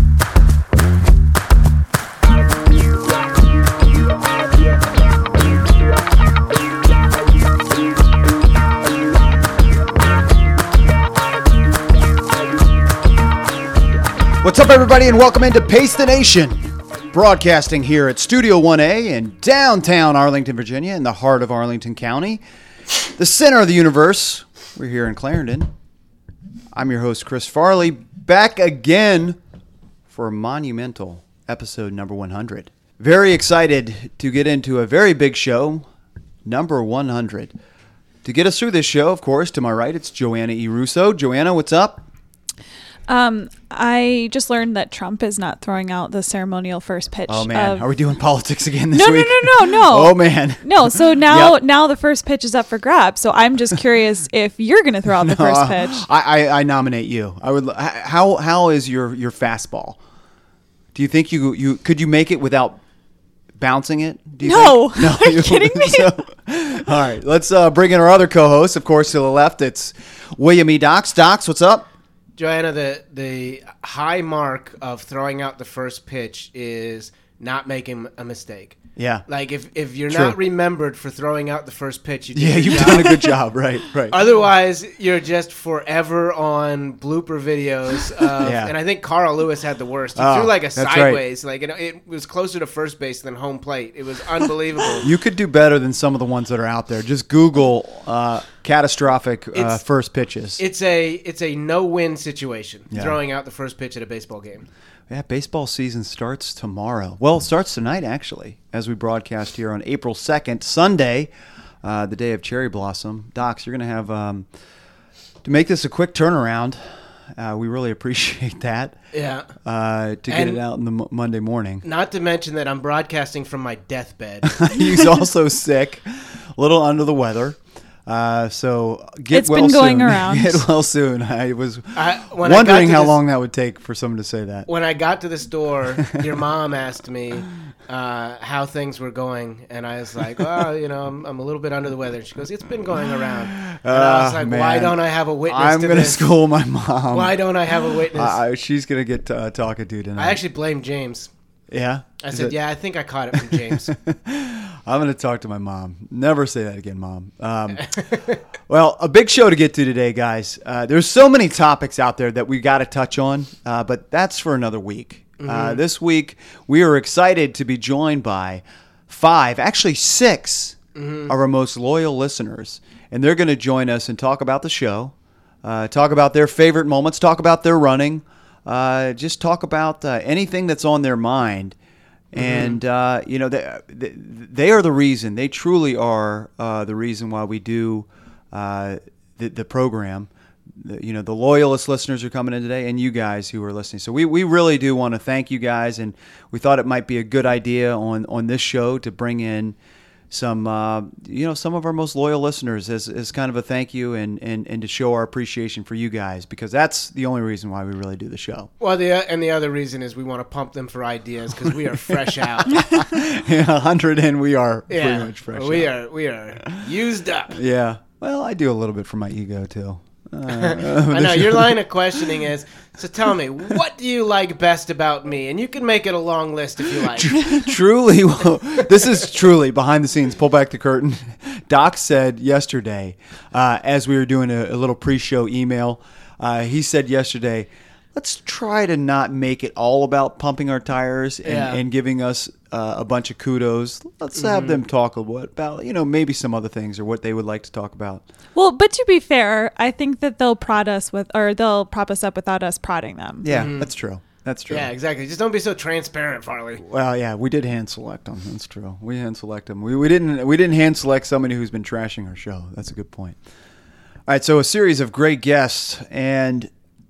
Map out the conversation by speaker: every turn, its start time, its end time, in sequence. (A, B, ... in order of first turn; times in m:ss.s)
0:14.4-0:22.4 A
0:23.2-0:25.7 A
0:26.7-0:29.4 A
0:30.1-0:35.8 A
0:36.4-0:37.5 A
0:38.2-0:42.0 A
0:43.1-0:47.8 B
0:47.3-0:51.6 A
0:48.9-0:56.0 B
0:55.1-1:00.0 A
1:00.9-1:02.8 A
1:03.6-1:11.9 A
1:04.4-1:06.1 B
1:12.4-1:23.4 C
1:19.0-1:19.2 A
1:20.1-1:20.4 A
1:22.3-1:24.2 A
1:24.1-1:35.1 C
1:28.4-1:28.7 A
1:30.2-1:31.2 A
1:35.0-1:40.6 A
1:39.5-1:39.8 C
1:40.6-1:44.7 C
1:42.9-1:43.2 A
1:45.1-1:51.3 A
1:51.8-1:54.5 A
1:55.4-1:56.8 A
1:57.3-1:59.0 A
1:59.1-1:59.5 C
1:59.6-2:01.8 A
2:00.3-2:00.6 C
2:01.8-2:04.6 C
2:04.4-2:14.7 A
2:09.3-2:10.7 B
2:11.9-2:13.2 C
2:14.7-2:26.3 C
2:23.5-2:27.4 A
2:27.1-2:28.4 C
2:28.1-2:30.4 A
2:30.2-2:31.3 C
2:31.7-2:32.6 A
2:32.2-2:33.9 C
2:33.3-2:37.9 A
2:37.8-2:38.4 C
2:38.7-3:01.8 A
2:45.4-2:45.8 C
2:50.9-2:51.3 C
3:02.3-3:19.8 A
3:02.3-3:02.8 C
3:20.3-3:28.7 A
3:28.8-3:32.9 C
3:32.7-3:35.9 A
3:34.9-3:37.6 C
3:37.5-3:41.8 A
3:40.5-3:47.7 C
3:47.1-4:08.2 A
4:01.4-4:01.8 C
4:04.4-4:04.8 C
4:08.6-4:13.5 B
4:13.4-4:14.9 A
4:13.5-4:13.9 C
4:14.7-4:16.8 C
4:16.8-4:23.4 A
4:24.3-4:26.7 A